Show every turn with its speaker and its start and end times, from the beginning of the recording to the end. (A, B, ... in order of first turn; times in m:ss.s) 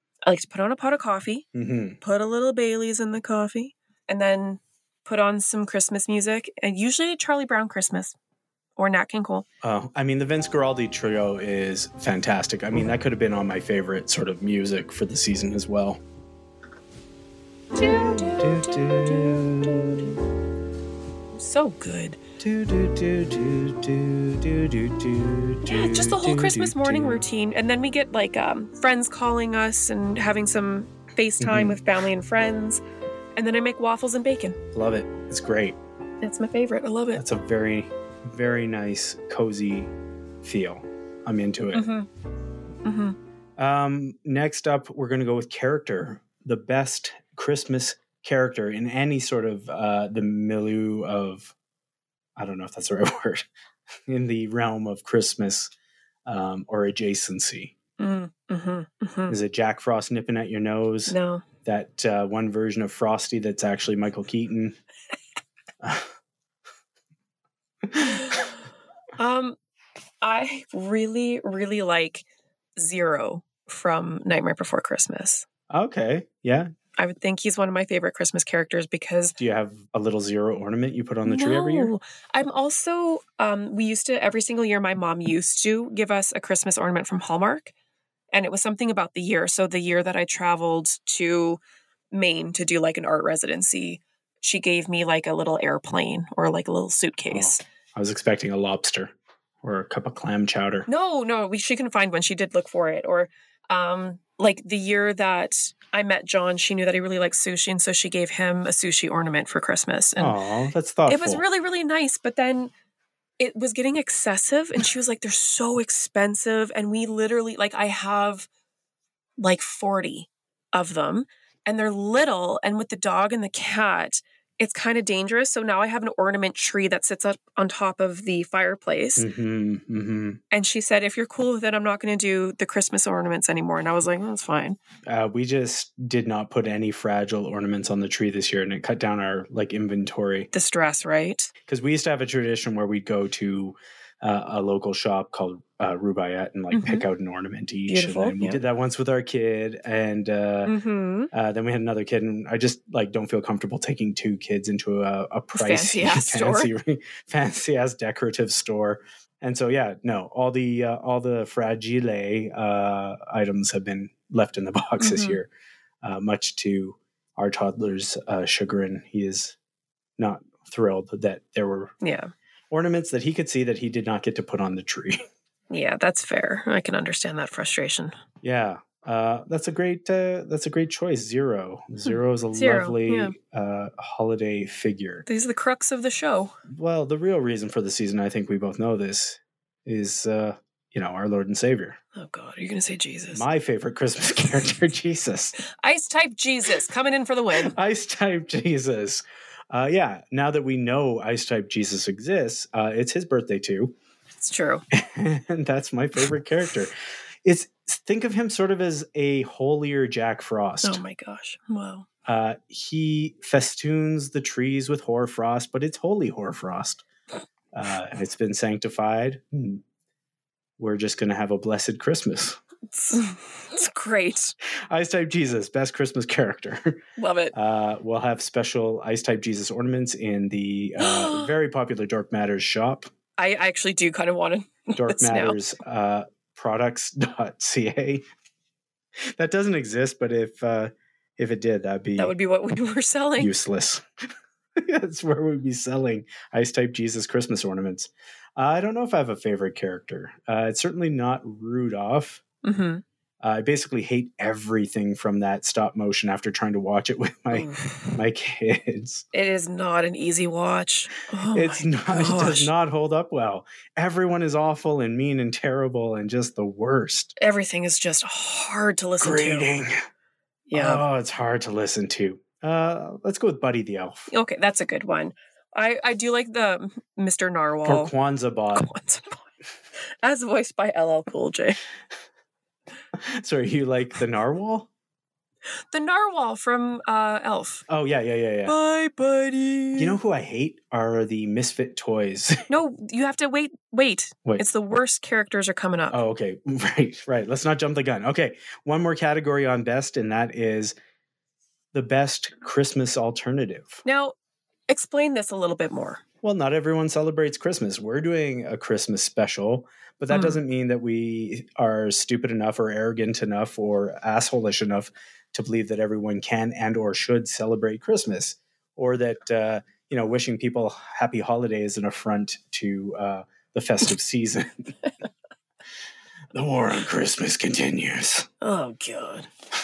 0:00.2-0:01.5 A
0:01.5-0:02.0 B
0:02.0-0:08.2 A
0:08.8-0:09.4 A
0:09.6-0:16.0 B
0:17.8-0:20.2 A
0:17.8-0:20.2 B
0:21.3-0:22.2 A
0:22.4-0:27.2 B
0:25.6-0:32.8 A
0:31.4-0:31.8 B
0:33.4-0:34.6 A
0:34.7-0:35.8 B
0:36.2-0:37.2 A
0:37.2-0:41.9 B
0:41.7-0:42.1 A
0:42.8-0:43.2 A
0:43.6-0:51.5 B
0:52.4-0:53.5 B
0:54.1-0:55.7 B
0:56.3-0:57.7 B
0:58.0-0:59.4 A
0:59.3-1:04.8 B
1:01.1-1:01.4 A
1:05.8-1:06.1 B
1:07.8-1:08.4 B
1:08.2-1:08.4 A
1:09.2-1:09.6 A
1:10.2-1:12.2 A
1:12.8-1:15.4 A
1:15.7-1:16.7 B
1:17.0-1:19.4 A
1:19.4-1:21.9 B
1:21.2-1:27.7 A
1:28.3-1:31.6 A
1:32.1-1:37.6 A
1:37.3-1:40.9 B
1:40.9-1:50.4 A
1:50.2-1:51.4 B
1:51.1-1:52.7 A
1:53.4-1:58.5 A
1:59.4-2:09.3 A
2:09.2-2:10.4 B
2:10.5-2:14.8 A
2:15.1-2:20.5 B
2:20.5-2:21.5 A
2:21.7-2:30.8 B
2:26.7-2:27.0 A
2:27.9-2:28.6 A
2:30.6-2:31.3 A
2:31.3-2:45.5 B
2:35.5-2:36.7 A
2:45.0-2:45.4 A
2:46.0-2:49.6 B
2:50.2-2:51.9 B
2:52.0-2:52.3 A
2:52.7-2:55.2 B
2:55.7-2:58.2 A
2:58.4-3:05.3 B
3:02.5-3:03.4 A
3:05.3-3:06.5 A
3:06.7-3:12.0 B
3:12.2-3:13.4 A
3:13.3-3:15.6 B
3:15.6-3:17.8 A
3:17.5-3:24.0 B
3:24.4-3:24.8 A
3:24.9-3:31.0 B
3:30.8-3:32.1 A
3:32.3-3:37.0 B
3:37.7-3:39.8 B
3:40.8-3:42.6 B
3:42.9-3:44.5 A
3:44.9-3:53.1 B
3:47.2-3:47.5 A
3:51.0-3:51.5 A
3:53.4-3:55.6 A
3:55.0-3:58.3 B
3:59.4-4:02.3 B
4:02.2-4:03.5 A
4:03.4-4:04.1 B
4:04.8-4:12.4 B
4:12.6-4:13.0 A
4:13.4-4:19.3 B
4:17.5-4:18.1 A
4:19.3-4:22.7 A
4:21.5-4:27.4 B
4:27.4-4:29.7 A
4:29.2-4:30.0 B
4:30.7-4:31.0 A
4:30.7-4:34.3 B
4:34.3-4:38.1 A
4:37.8-4:38.9 B
4:38.8-4:39.5 A
4:40.2-4:41.8 A
4:43.1-4:44.9 B
4:45.9-4:47.8 A
4:47.9-4:48.8 B
4:48.7-4:50.2 A
4:50.0-4:52.7 B
4:52.7-4:56.2 A
4:56.1-5:01.0 B
5:01.9-5:04.0 B
5:04.0-5:04.4 A
5:04.9-5:06.2 A
5:06.4-5:24.9 B
5:10.3-5:10.6 A
5:26.5-5:28.5 B
5:28.6-5:29.5 A